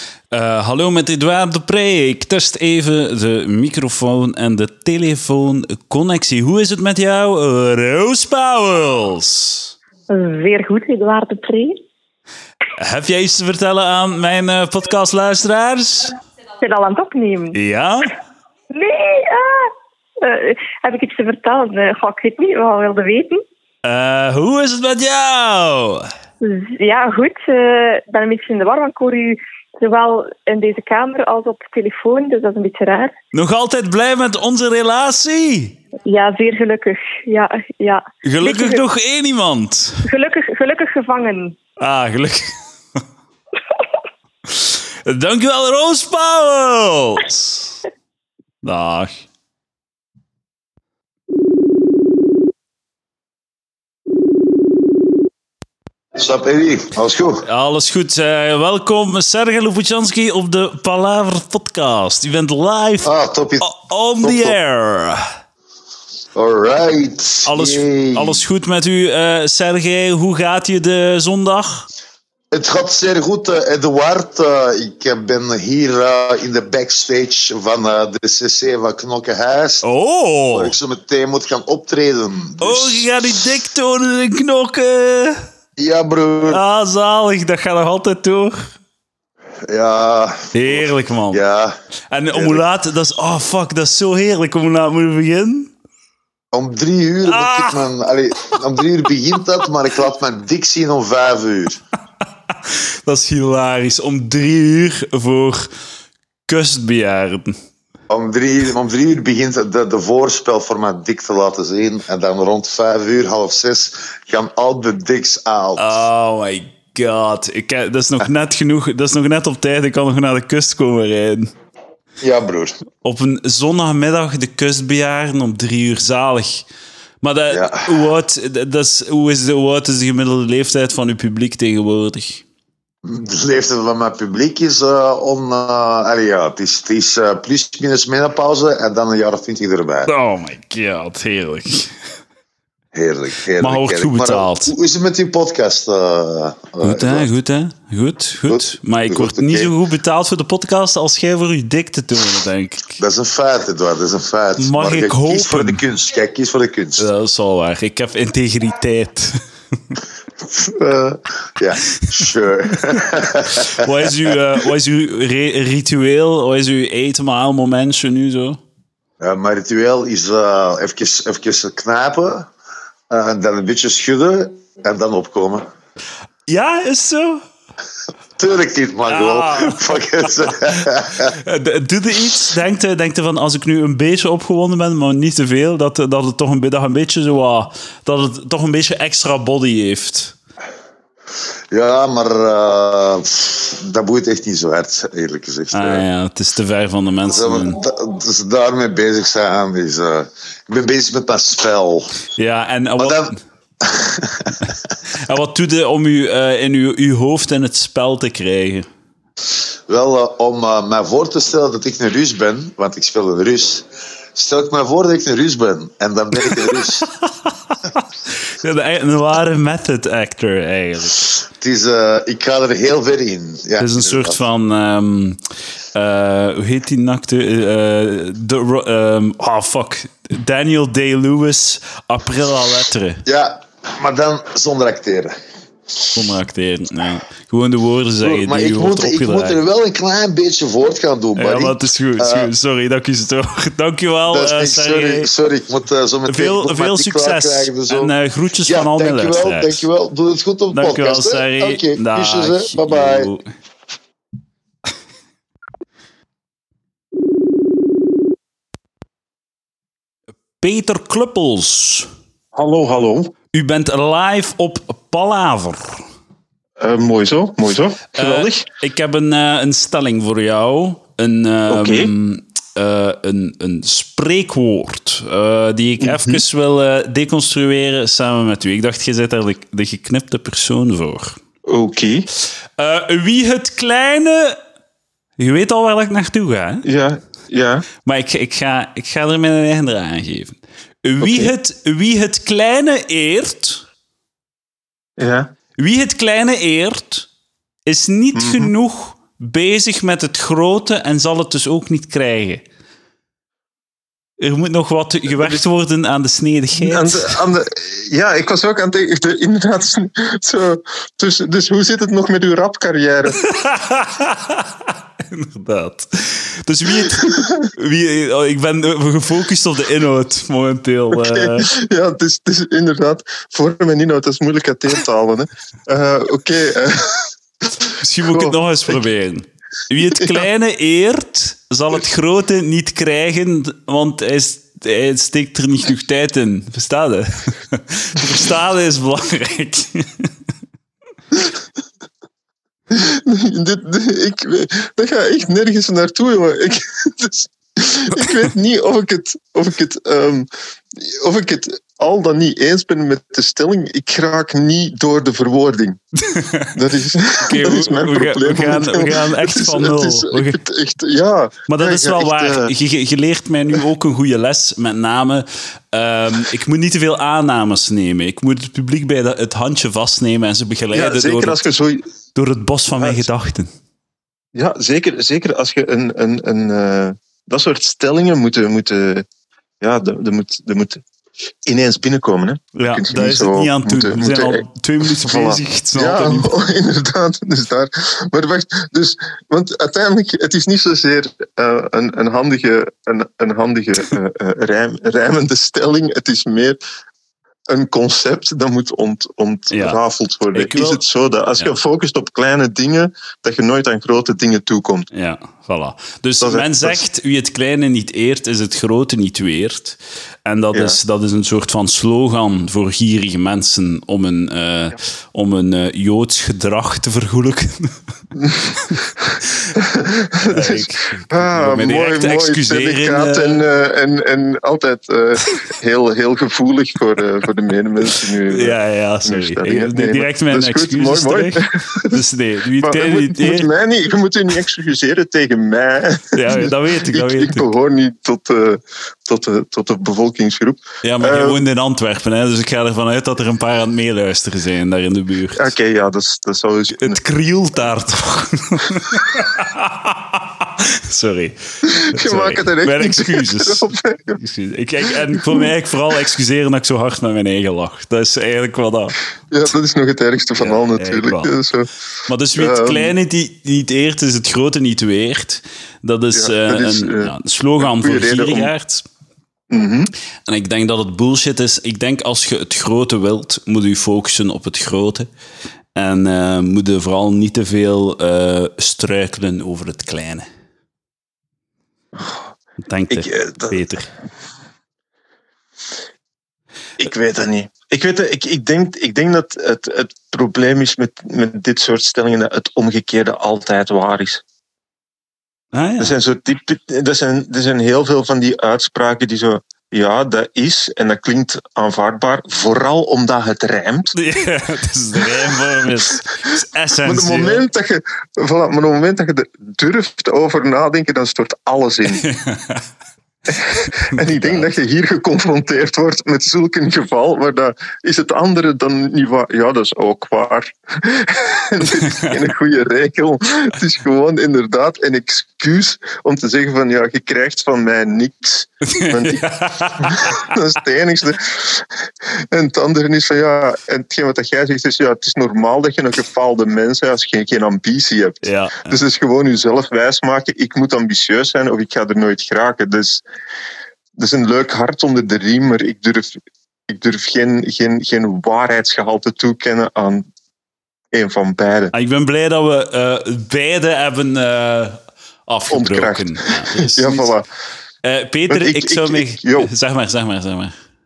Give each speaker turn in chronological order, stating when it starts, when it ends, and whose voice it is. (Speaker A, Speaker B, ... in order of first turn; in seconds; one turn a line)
Speaker A: 0.3-9.7
Speaker B: 10.1-11.8
Speaker A: 12.8-16.1
Speaker B: 16.6-17.6
Speaker A: 17.5-18.1
Speaker B: 18.7-23.4
Speaker A: 23.8-26.1
Speaker B: 26.4-33.1
Speaker A: 33.3-35.8
Speaker B: 36.1-38.8
Speaker A: 38.2-40.0
Speaker B: 40.0-41.6
Speaker A: 41.8-42.5
Speaker A: 44.5-47.8
Speaker A: 48.6-49.2
Speaker C: 56.1-57.5
Speaker A: 57.5-65.2
Speaker C: 63.0-63.7
Speaker C: 64.2-64.6
Speaker C: 66.3-68.4
Speaker A: 67.5-71.9
Speaker C: 72.5-79.9
Speaker A: 79.8-80.8
Speaker C: 80.5-83.1
Speaker A: 82.6-85.4
Speaker C: 85.8-86.6
Speaker A: 86.5-88.7
Speaker C: 89.6-91.7
Speaker A: 90.5-91.4
Speaker A: 92.1-95.7
Speaker C: 92.3-92.6
Speaker C: 96.5-101.8
Speaker A: 97.3-97.8
Speaker A: 102.7-105.7
Speaker A: 106.5-107.6
Speaker C: 108.1-116.0
Speaker A: 115.8-121.5
Speaker C: 122.2-122.8
Speaker A: 123.0-126.7
Speaker A: 127.2-132.4
Speaker C: 127.5-127.9
Speaker C: 133.0-140.1
Speaker A: 140.1-141.9
Speaker C: 142.9-147.3
Speaker A: 143.6-144.7
Speaker A: 146.8-153.0
Speaker C: 148.5-149.7
Speaker C: 153.0-157.1
Speaker A: 154.6-155.8
Speaker A: 157.0-159.4
Speaker D: 160.8-161.2
Speaker C: 161.6-164.1
Speaker A: 162.9-168.6
Speaker C: 169.2-172.5
Speaker C: 173.1-175.7
Speaker A: 176.5-177.4
Speaker C: 178.4-181.3
Speaker A: 179.1-190.3
Speaker C: 191.7-196.1
Speaker A: 195.7-197.8
Speaker C: 197.3-202.1
Speaker A: 202.4-203.4
Speaker C: 203.0-204.9
Speaker A: 205.1-208.9
Speaker C: 209.9-217.1
Speaker A: 216.5-221.3
Speaker C: 221.6-224.4
Speaker A: 223.8-225.4
Speaker A: 225.9-233.2
Speaker C: 233.3-235.3
Speaker A: 236.1-239.6
Speaker C: 238.2-242.5
Speaker A: 241.4-245.3
Speaker C: 244.3-248.1
Speaker A: 246.3-249.9
Speaker C: 248.7-253.3
Speaker A: 250.7-253.5
Speaker A: 260.6-262.1
Speaker D: 262.5-263.3
Speaker A: 263.5-266.0
Speaker D: 266.8-268.6
Speaker A: 268.1-281.4
Speaker D: 271.7-272.1
Speaker D: 276.0-276.4
Speaker D: 281.7-282.3
Speaker A: 282.8-284.6
Speaker A: 285.4-286.9
Speaker D: 286.8-287.9
Speaker A: 288.0-293.9
Speaker D: 291.2-291.5
Speaker D: 295.2-295.5
Speaker A: 295.8-297.3
Speaker A: 297.9-302.6
Speaker D: 298.4-298.7
Speaker A: 304.4-307.4
Speaker D: 305.4-305.6
Speaker D: 306.8-313.5
Speaker A: 313.5-314.7
Speaker A: 315.3-321.7
Speaker D: 317.0-317.7
Speaker D: 321.1-327.3
Speaker A: 328.0-340.3
Speaker D: 328.3-329.0
Speaker D: 342.9-356.0
Speaker A: 356.2-356.8
Speaker D: 356.7-362.7
Speaker A: 357.4-360.6
Speaker A: 361.7-371.6
Speaker D: 370.9-372.0
Speaker A: 372.4-373.7
Speaker D: 373.0-373.2
Speaker D: 374.5-379.2
Speaker D: 379.8-381.0
Speaker D: 381.7-384.7
Speaker A: 382.8-386.5
Speaker D: 385.2-396.8
Speaker D: 397.7-405.1
Speaker A: 399.7-400.0
Speaker A: 400.5-401.0
Speaker A: 405.1-417.9
Speaker D: 406.4-407.0
Speaker D: 418.4-418.7
Speaker D: 419.8-432.2
Speaker A: 420.5-423.7
Speaker A: 428.5-433.7
Speaker D: 432.8-441.6
Speaker A: 436.3-437.7
Speaker A: 441.0-445.7
Speaker D: 445.6-447.2
Speaker A: 447.0-451.6
Speaker D: 451.9-454.4
Speaker A: 452.1-459.2
Speaker D: 455.4-455.7
Speaker D: 459.5-461.9
Speaker A: 460.6-461.5
Speaker A: 462.3-469.0
Speaker D: 462.6-463.1
Speaker D: 466.3-468.7
Speaker D: 469.7-470.1
Speaker A: 470.5-475.3
Speaker A: 475.9-480.5
Speaker A: 482.9-484.1
Speaker D: 483.1-483.8
Speaker D: 487.0-494.4
Speaker A: 495.7-496.2
Speaker D: 496.0-504.1
Speaker A: 504.1-507.6
Speaker D: 507.1-512.2
Speaker A: 512.2-512.8
Speaker D: 513.5-531.9
Speaker A: 514.4-514.7
Speaker A: 529.0-530.4
Speaker D: 532.5-543.2
Speaker A: 538.4-539.0
Speaker D: 544.2-550.3
Speaker D: 551.1-551.9
Speaker A: 551.9-557.3
Speaker D: 555.7-557.5
Speaker A: 558.0-560.8
Speaker D: 558.5-559.7